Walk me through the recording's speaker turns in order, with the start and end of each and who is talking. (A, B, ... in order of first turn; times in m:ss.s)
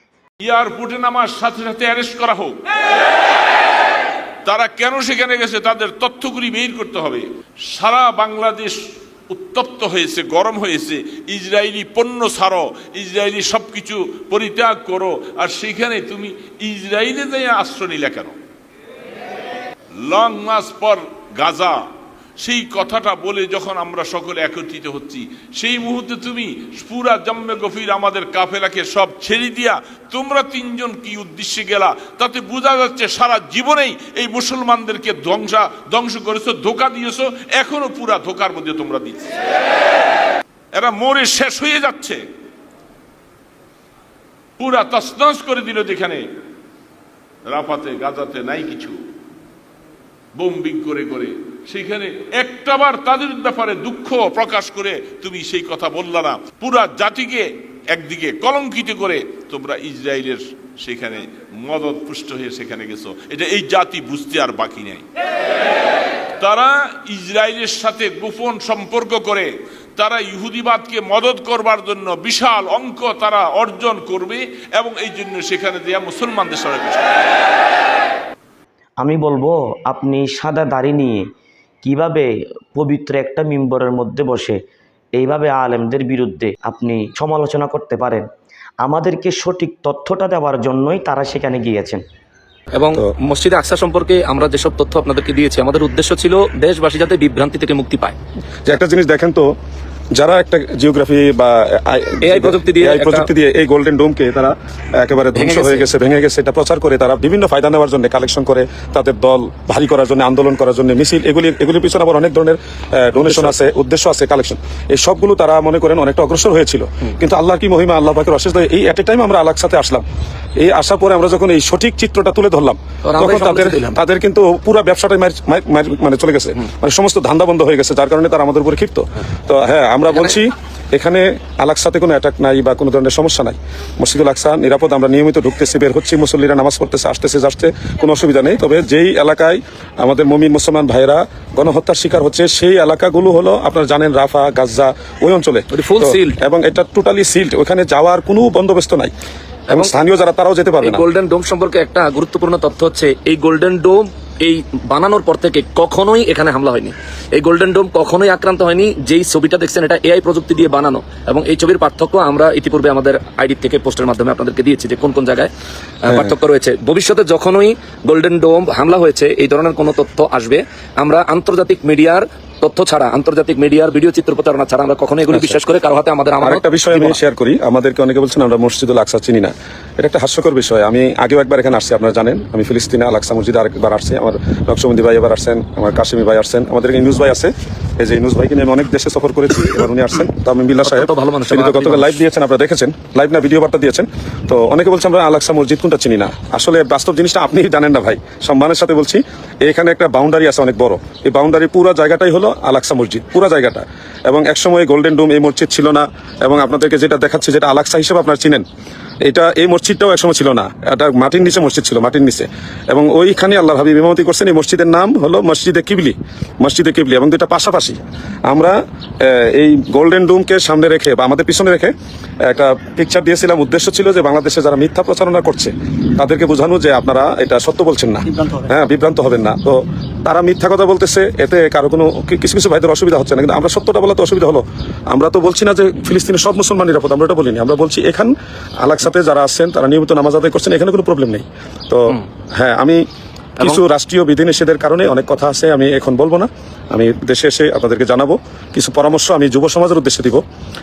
0:00.4-0:02.6 A
0:04.5-0:08.8 A
0:09.3-0:18.4 A
0:20.0-0:21.8 A
0:22.4-0:39.5 A
0:40.8-0:42.2 A
0:44.6-0:46.2 A
0:47.5-0:49.0 A
0:50.4-1:05.0 A
1:06.4-1:17.2 A
1:19.0-1:21.3 B
1:21.8-1:24.6 B
1:25.2-1:28.3 B
1:28.8-1:32.0 B
1:32.8-1:38.2 C
1:38.6-1:39.5 D
1:40.2-2:00.0 D
1:42.2-1:43.3 C
1:45.4-1:45.9 C
1:53.2-1:53.6 C
2:00.6-2:29.1 D
2:03.0-2:04.0 C
2:25.7-2:26.4 C
2:29.7-2:31.0 D
2:30.8-2:45.5 C
2:46.0-2:57.2 C
2:55.3-2:55.6 D
2:56.4-3:28.6 D
3:10.8-3:12.2 C
3:29.2-3:41.9 D
3:42.4-4:03.0 D
4:03.6-4:10.4 D